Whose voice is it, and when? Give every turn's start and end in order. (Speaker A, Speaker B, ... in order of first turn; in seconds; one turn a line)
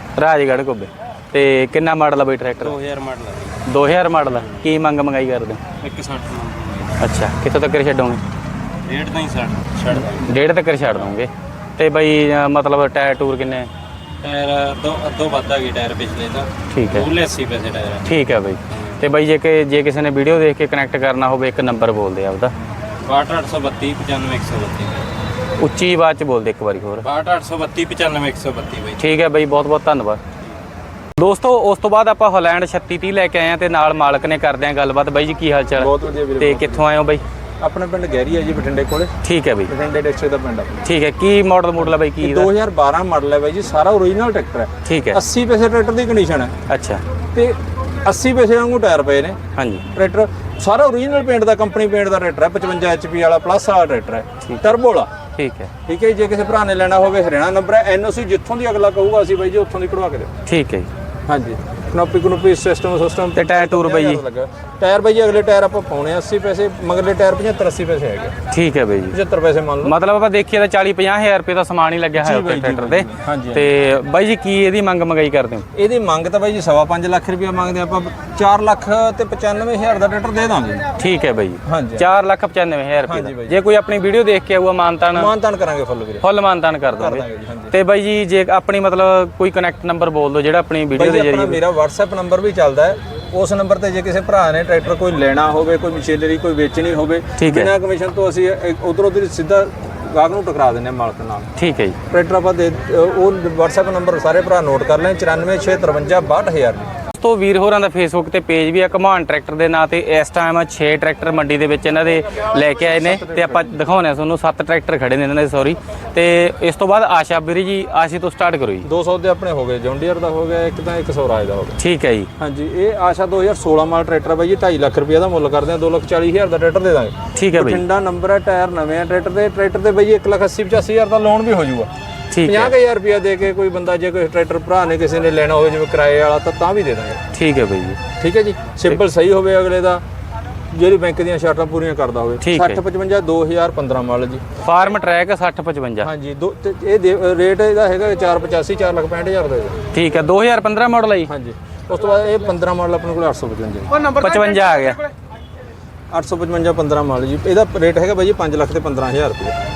Speaker A: 0.2-2.8
Speaker B: 2.6-3.5
Speaker A: 3.7-5.6
Speaker B: 5.8-7.0
Speaker A: 7.0-8.2
Speaker B: 8.9-10.4
Speaker A: 10.1-13.7
Speaker B: 14.2-18.1
Speaker A: 16.7-17.1
Speaker A: 18.0-22.5
Speaker B: 23.0-25.0
Speaker A: 25.6-27.1
Speaker B: 27.0-29.0
Speaker A: 28.9-30.2
Speaker A: 31.2-37.2
Speaker C: 35.7-36.9
Speaker C: 37.6-39.1
Speaker A: 39.2-39.7
Speaker C: 39.7-40.8
Speaker A: 40.9-42.5
Speaker C: 42.2-46.5
Speaker A: 44.9-45.2
Speaker A: 46.7-47.0
Speaker C: 47.3-49.4
Speaker A: 49.5-49.8
Speaker C: 49.9-55.1
Speaker A: 55.4-55.7
Speaker C: 55.9-60.3
Speaker A: 60.5-60.9
Speaker C: 61.3-68.3
Speaker A: 63.3-64.2
Speaker A: 68.5-69.2
Speaker C: 69.1-69.9
Speaker A: 69.8-75.6
Speaker C: 72.2-73.7
Speaker C: 75.8-80.8
Speaker A: 81.0-85.3
Speaker C: 81.7-82.0
Speaker C: 83.0-83.6
Speaker C: 85.1-86.2
Speaker A: 86.2-91.6
Speaker C: 86.9-87.7
Speaker C: 90.9-101.5
Speaker A: 97.4-97.7
Speaker A: 101.6-102.0
Speaker C: 102.1-106.9
Speaker A: 107.2-118.8
Speaker C: 112.8-113.8
Speaker C: 118.8-121.8
Speaker A: 121.8-122.3
Speaker C: 122.4-131.9
Speaker A: 127.3-127.8
Speaker A: 132.3-132.7
Speaker C: 132.4-137.2
Speaker A: 137.3-138.0
Speaker C: 138.2-140.0
Speaker C: 140.7-144.4
Speaker A: 142.4-142.8
Speaker A: 144.6-146.1
Speaker C: 146.0-149.8
Speaker A: 149.9-151.3
Speaker C: 151.2-154.1
Speaker A: 154.1-155.0
Speaker C: 156.1-159.6